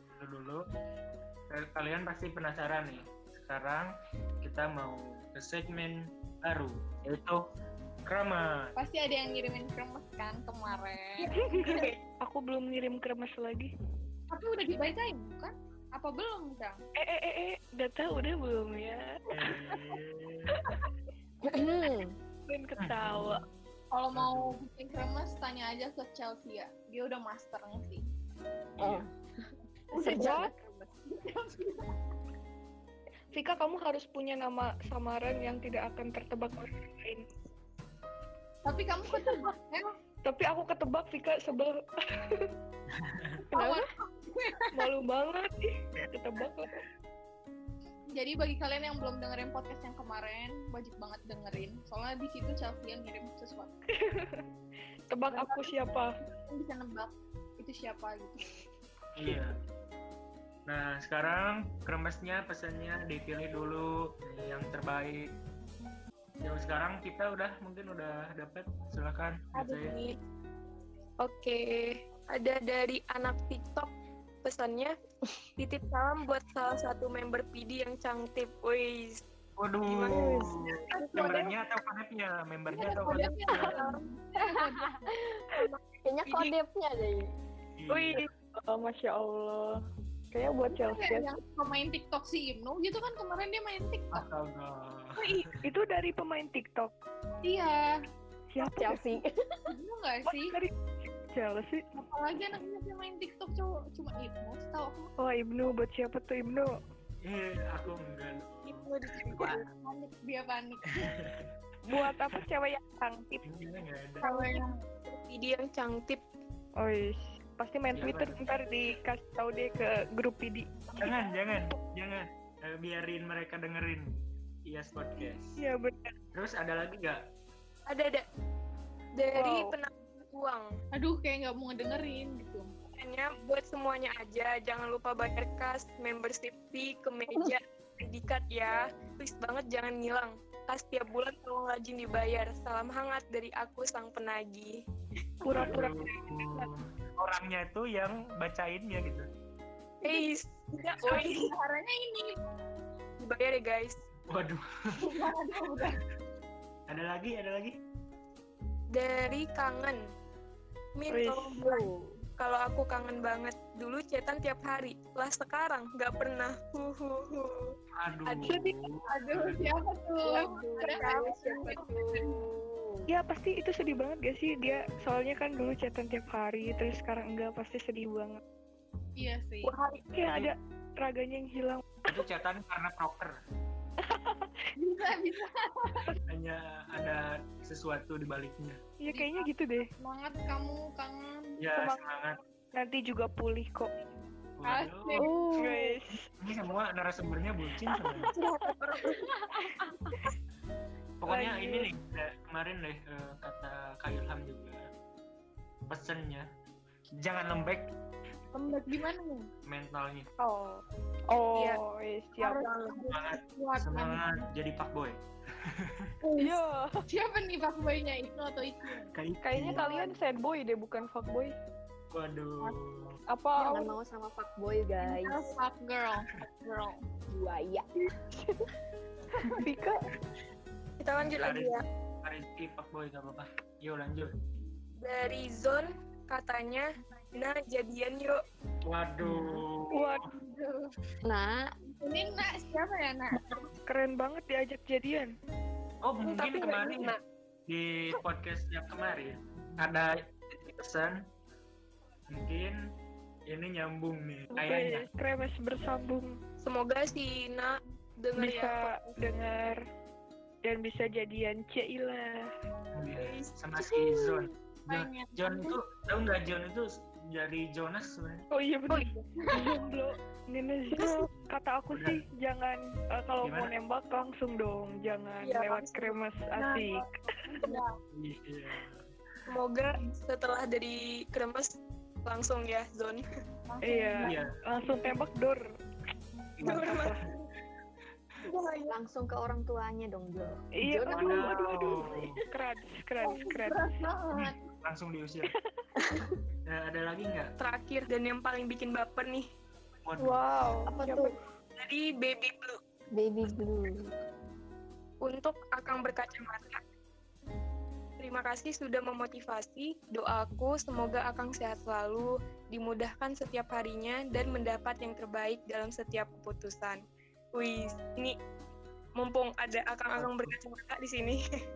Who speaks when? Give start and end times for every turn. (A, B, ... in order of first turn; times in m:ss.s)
0:00.2-0:00.6 A
0:01.5-0:03.9 A
0:04.4-0:07.4 A
0:08.1-0:08.7 A
0:08.8-0:11.9 B
0:11.4-0:13.7 C
0:11.7-0:11.9 D
0:14.3-0:16.8 B
0:17.0-0:19.2 C
0:19.3-0:20.6 A
0:21.4-0:22.2 E
0:22.5-0:23.4 C
0:22.8-0:23.4 A
0:23.9-0:28.1 B
0:24.1-0:24.6 A
0:28.8-0:29.0 A
0:28.8-0:29.1 E
0:29.9-0:30.9 E
0:30.0-0:30.5 C
0:30.0-0:30.5 B
0:31.1-0:31.9 B
0:33.3-0:37.2 C
0:38.6-0:39.9 B
0:40.2-0:42.5 C
0:42.9-0:43.4 A
0:43.5-0:43.9 C
0:43.5-0:44.7 B
0:44.7-0:46.8 C
0:48.2-0:53.7 B
0:54.0-0:54.4 C
0:55.1-0:56.1 C
0:55.3-0:55.7 B
0:56.5-0:58.6 B
0:59.2-0:59.6 A
1:00.7-1:05.3 A
1:06.4-1:09.9 A
1:09.5-1:10.2 D
1:11.2-1:13.9 D
1:14.4-1:15.0 D
1:15.6-1:19.2 D
1:19.6-1:23.8 A
1:19.8-1:21.5 D
1:21.0-1:21.5 B
1:22.7-1:25.1 B
1:23.5-1:24.0 D
1:25.1-1:25.4 E
1:25.6-1:26.5 D
1:26.0-1:27.3 E
1:27.8-1:28.3 A
1:28.0-1:29.8 C
1:30.3-1:31.3 C
1:30.7-1:34.3 B
1:34.1-1:35.6 A
1:35.6-1:36.9 C
1:37.4-1:38.0 B
1:38.5-1:39.1 C
1:38.6-1:39.3 E
1:39.7-1:40.6 B
1:40.3-1:41.8 C
1:42.0-1:45.1 B
1:45.2-1:46.7 C
1:47.2-1:49.6 A
1:48.7-1:49.6 D
1:49.7-1:51.0 B
1:51.0-1:51.5 A
1:51.8-1:53.4 C
1:53.4-1:54.2 A
1:54.2-1:54.7 B
1:54.3-1:56.2 D
1:56.8-2:01.7 C
1:57.9-1:58.4 A
2:01.0-2:05.6 A
2:05.2-2:06.2 C
2:06.3-2:07.2 A
2:07.9-2:08.2 D
2:09.2-2:10.7 D
2:09.3-2:09.8 C
2:10.9-2:12.7 B
2:13.0-2:24.7 D
2:25.4-2:26.7 C
2:25.5-2:29.3 A
2:30.0-2:31.5 D
2:31.0-2:32.4 B
2:33.2-2:34.0 D
2:34.3-2:35.2 A
2:35.0-2:36.0 B
2:36.9-2:37.8 A
2:38.9-2:40.0 D
2:41.0-2:41.8 D
2:41.1-2:41.7 C
2:41.6-2:42.1 E
2:42.4-2:47.7 D
2:48.0-2:49.7 A
2:48.3-2:48.6 D
2:48.4-2:48.8 C
2:49.1-2:52.4 B
2:50.2-2:53.1 E
2:50.9-2:51.4 D
2:53.1-2:58.4 C
2:59.2-2:59.8 B
2:59.7-3:02.2 C
3:02.1-3:03.4 A
3:04.0-3:04.7 C
3:04.8-3:06.1 B
3:06.3-3:08.8 A
3:09.0-3:09.9 C
3:09.1-3:11.6 B
3:11.6-3:12.4 A
3:11.7-3:12.0 C
3:12.7-3:13.9 C
3:14.6-3:15.3 A
3:14.6-3:15.3 B
3:15.2-3:16.0 E
3:15.6-3:16.3 C
3:16.4-3:18.3 A
3:17.8-3:18.5 C
3:21.2-3:24.9 A
3:21.3-3:21.9 C
3:25.9-3:26.5 A
3:27.2-3:27.9 A
3:28.5-3:29.5 B
3:29.7-3:30.3 A
3:30.4-3:32.7 C
3:31.6-3:31.8 D
3:32.4-3:34.5 B
3:32.6-3:33.0 D
3:33.1-3:36.1 A
3:36.4-3:37.1 C
3:37.1-3:39.1 B
3:39.2-3:39.9 A
3:39.4-3:41.6 C
3:39.6-3:40.0 B
3:42.1-3:43.2 A
3:43.3-3:43.9 C
3:43.6-3:45.6 E
3:45.0-3:47.0 B
3:47.3-3:47.9 E
3:48.2-3:48.7 C
3:49.4-3:50.1 C
3:51.0-3:51.8 D
3:51.2-3:54.4 A
3:55.0-3:58.4 D
3:58.8-4:00.2 A
3:59.9-4:00.3 C
4:00.2-4:00.9 B
4:01.2-4:01.7 E
4:01.9-4:03.4 B
4:03.9-4:05.3 C
4:06.0-4:07.2 A
4:06.3-4:07.1 C
4:07.7-4:11.2 A
4:12.3-4:12.8 A
4:13.5-4:15.1 A
4:14.6-4:16.4 C
4:16.6-4:19.0 D
4:18.4-4:19.8 C
4:20.6-4:22.5 C
4:22.9-4:28.4 A
4:23.2-4:24.4 D
4:24.9-4:25.4 B
4:28.5-4:37.1 C
4:28.9-4:29.3 D
4:29.4-4:29.7 B
4:31.0-4:31.3 D
4:31.3-4:32.2 A
4:33.4-4:33.7 A
4:35.4-4:36.1 D
4:37.6-4:37.9 B
4:38.1-4:39.0 A
4:39.5-4:43.2 D
4:43.7-4:45.1 B
4:43.8-4:45.6 C
4:44.2-4:44.5 A
4:46.6-4:47.1 A
4:46.6-4:47.2 C
4:46.6-4:47.4 D
4:48.4-4:48.9 D
4:48.9-4:52.3 E
4:50.8-4:53.9 C
4:51.1-4:52.4 A
4:53.2-4:54.6 B
4:54.3-4:55.5 A
4:56.7-4:57.5 A
4:57.6-4:59.5 D
5:00.1-5:00.4 A
5:00.2-5:01.3 C
5:00.9-5:01.3 E
5:01.8-5:02.8 D
5:03.1-5:04.1 E
5:05.2-5:06.8 D
5:08.2-5:17.0 D
5:17.6-5:18.4 D
5:19.2-5:21.4 D
5:20.2-5:20.6 A